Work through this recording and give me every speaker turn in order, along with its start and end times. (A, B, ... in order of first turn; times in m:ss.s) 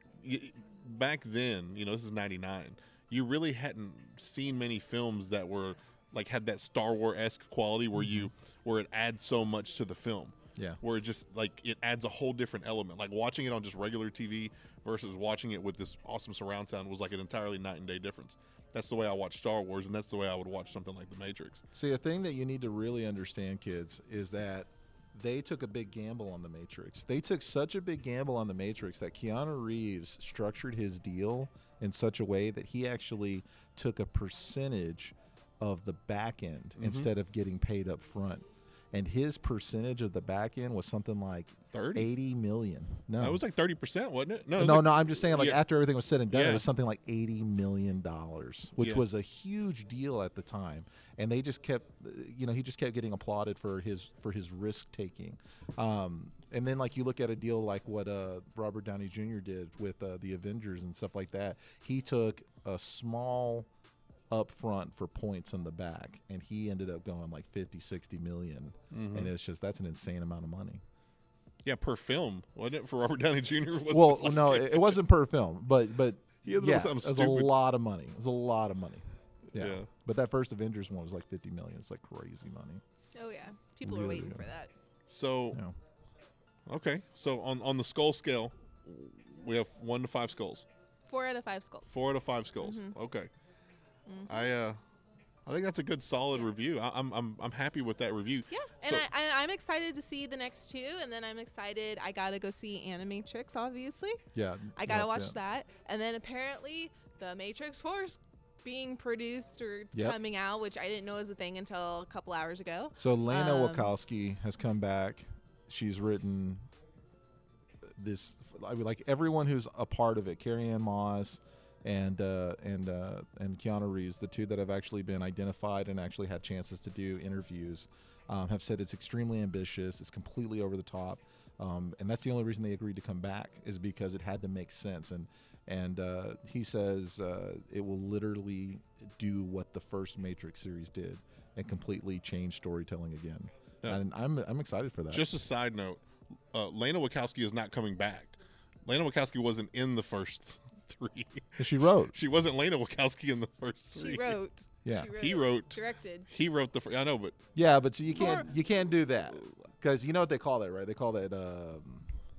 0:00.2-0:21.6 A
0:08.0-0:08.3 B
0:10.6-0:10.8 B
0:21.7-0:43.4 B
0:36.8-0:37.1 A
0:41.7-0:42.1 A
0:43.2-0:45.6 A
0:44.6-1:03.7 B
0:46.3-0:46.7 A
0:48.8-0:49.0 A
1:04.3-1:10.8 B
1:08.9-1:09.3 A
1:11.6-1:15.0 A
1:13.9-1:22.8 B
1:16.4-1:17.5 A
1:19.6-1:19.9 A
1:23.2-1:24.7 C
1:23.8-1:24.5 B
1:25.1-1:25.6 A
1:26.7-1:30.7 A
1:31.1-1:32.0 C
1:31.9-1:33.3 A
1:32.6-1:32.9 C
1:34.1-1:34.5 C
1:34.3-1:34.8 A
1:35.5-1:39.1 A
1:38.5-1:44.2 C
1:44.3-1:45.4 B
1:44.8-1:53.9 C
1:53.0-1:56.7 B
1:57.8-2:25.3 B
2:25.1-2:28.4 A
2:28.9-2:34.4 A
2:31.6-2:32.2 B
2:34.0-2:36.3 C
2:34.8-2:35.1 B
2:35.1-2:37.4 A
2:37.6-2:42.1 B
2:38.2-2:38.5 C